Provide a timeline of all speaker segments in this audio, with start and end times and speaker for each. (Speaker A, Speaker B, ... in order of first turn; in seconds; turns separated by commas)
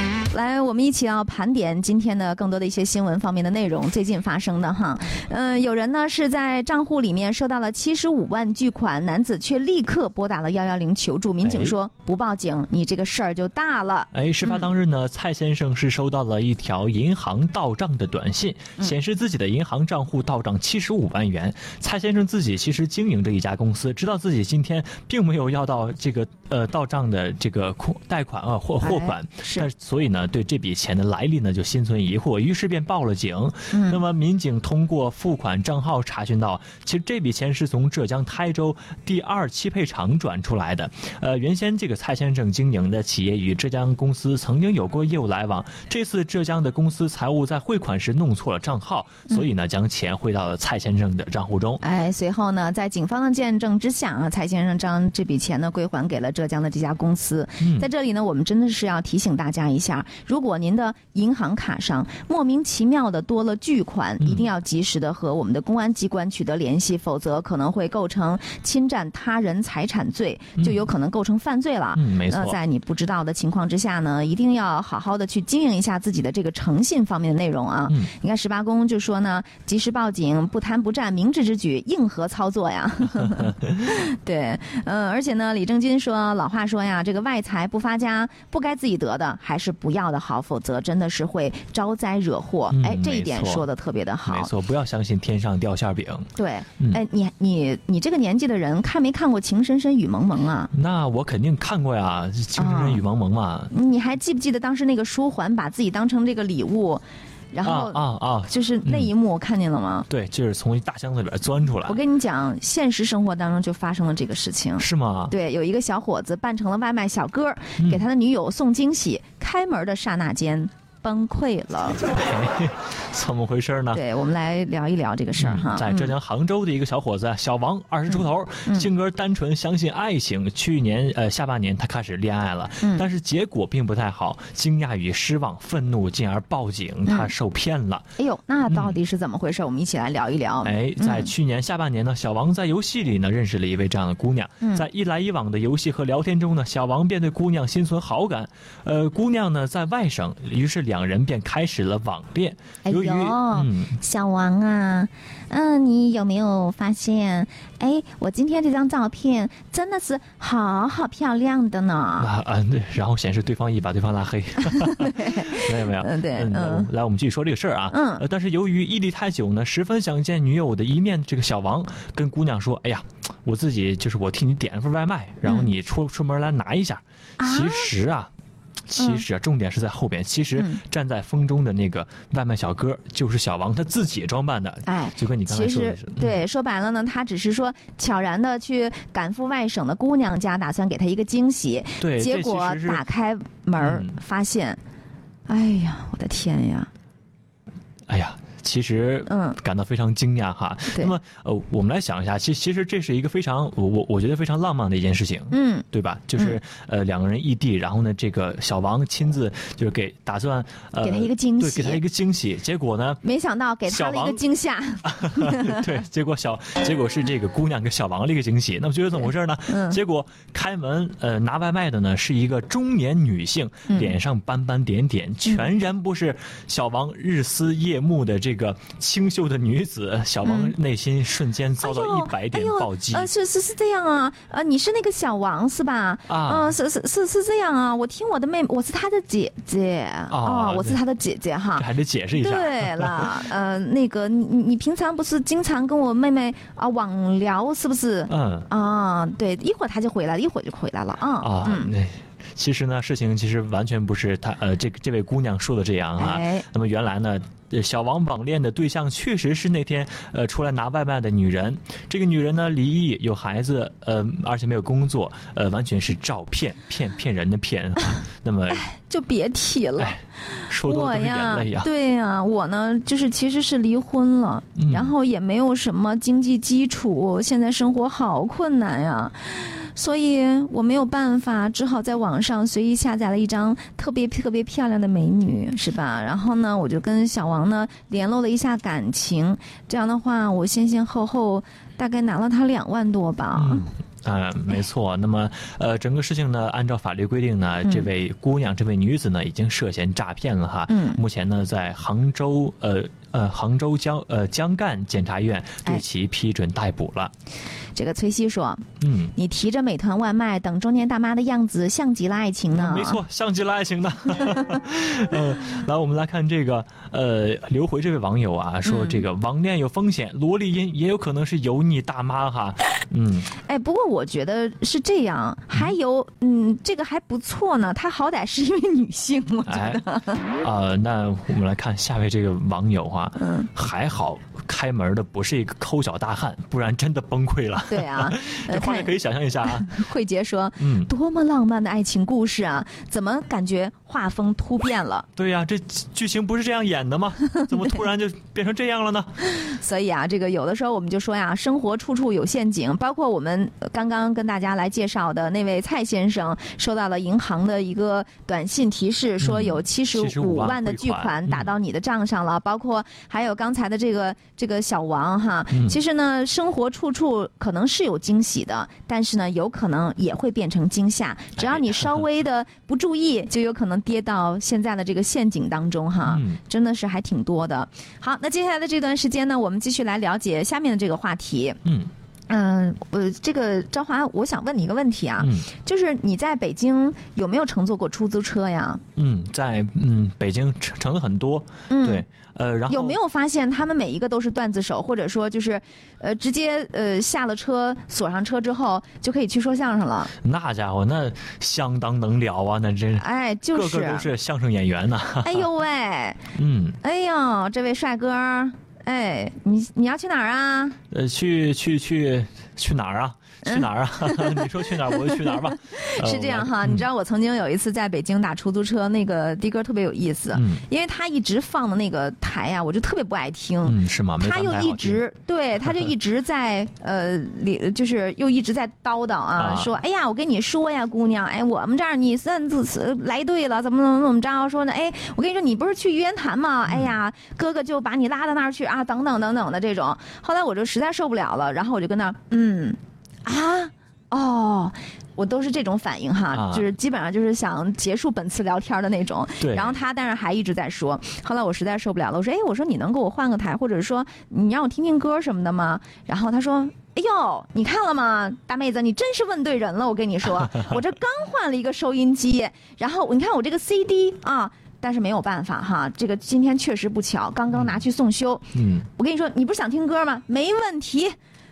Speaker A: 0.3-14.7, Speaker B: 11.4-11.8, Speaker B: 14.1-51.8, Speaker A: 28.8-29.7, Speaker A: 33.7-34.0, Speaker A: 51.8-94.5, Speaker B: 57.6-57.9, Speaker B: 64.2-64.5, Speaker B: 70.6-70.8, Speaker B: 72.0-72.6, Speaker B: 83.4-83.7, Speaker B: 92.7-93.7, Speaker B: 94.3-96.3, Speaker A: 96.4-100.7, Speaker B: 100.7-103.7, Speaker A: 102.6-103.0, Speaker A: 103.7-110.1, Speaker B: 107.6-109.1, Speaker B: 110.1-112.0, Speaker A: 111.8-122.1, Speaker B: 114.8-115.3, Speaker B: 117.8-118.0, Speaker B: 122.0-124.0, Speaker A: 123.9-126.1, Speaker B: 125.4-138.1, Speaker A: 132.8-133.1, Speaker A: 138.2-141.3, Speaker B: 138.7-139.0, Speaker B: 140.6-154.0, Speaker A: 152.8-162.3, Speaker B: 162.2-178.3, Speaker A: 164.6-166.9, Speaker A: 167.9-168.2, Speaker A: 177.4-177.9, Speaker B: 178.9-186.4, Speaker A: 179.0-179.2, Speaker A: 180.6-180.8, Speaker A: 184.9-194.8, Speaker B: 192.0-193.1, Speaker B: 193.8-194.1, Speaker A: 195.5-196.9, Speaker B: 198.1-213.2, Speaker A: 199.3-199.6, Speaker A: 205.5-205.9, Speaker A: 211.0-212.0, Speaker A: 213.2-215.9, Speaker B: 213.9-214.4, Speaker B: 215.1-233.3, Speaker A: 219.7-220.0, Speaker A: 223.9-224.2, Speaker A: 230.4-230.7, Speaker A: 231.8-251.9, Speaker B: 236.3-236.7, Speaker B: 240.3-241.0, Speaker B: 241.8-243.4, Speaker B: 248.3-248.7, Speaker B: 251.4-268.9, Speaker A: 256.2-256.7, Speaker A: 268.7-293.9, Speaker B: 270.0-271.9, Speaker B: 274.8-275.1, Speaker B: 293.6-307.3, Speaker A: 297.9-298.1, Speaker A: 300.9-301.2, Speaker A: 307.9-313.2, Speaker B: 309.0-309.3, Speaker B: 312.7-323.5, Speaker A: 318.9-319.3, Speaker A: 323.6-330.4, Speaker B: 329.7-330.0, Speaker B: 330.6-340.0, Speaker A: 333.4-333.7, Speaker A: 337.9-345.3, Speaker B: 340.8-341.1, Speaker B: 345.4-349.3, Speaker A: 349.4-381.8, Speaker B: 359.4-361.7, Speaker B: 365.7-366.0, Speaker B: 371.6-372.2, Speaker B: 376.3-376.6, Speaker B: 381.9-382.1, Speaker A: 382.5-389.0, Speaker B: 385.4-385.7, Speaker B: 389.2-393.2, Speaker A: 391.9-392.2, Speaker A: 392.9-400.3, Speaker B: 400.4-405.7, Speaker A: 403.2-404.3, Speaker A: 405.4-406.4, Speaker B: 406.6-407.0, Speaker A: 407.0-411.0, Speaker B: 411.1-417.1, Speaker A: 413.6-471.3, Speaker B: 420.5-420.8, Speaker B: 423.9-425.2, Speaker B: 429.6-429.9, Speaker B: 436.9-437.1, Speaker B: 446.5-446.9, Speaker B: 449.6-450.0, Speaker B: 467.7-468.0, Speaker B: 468.7-469.1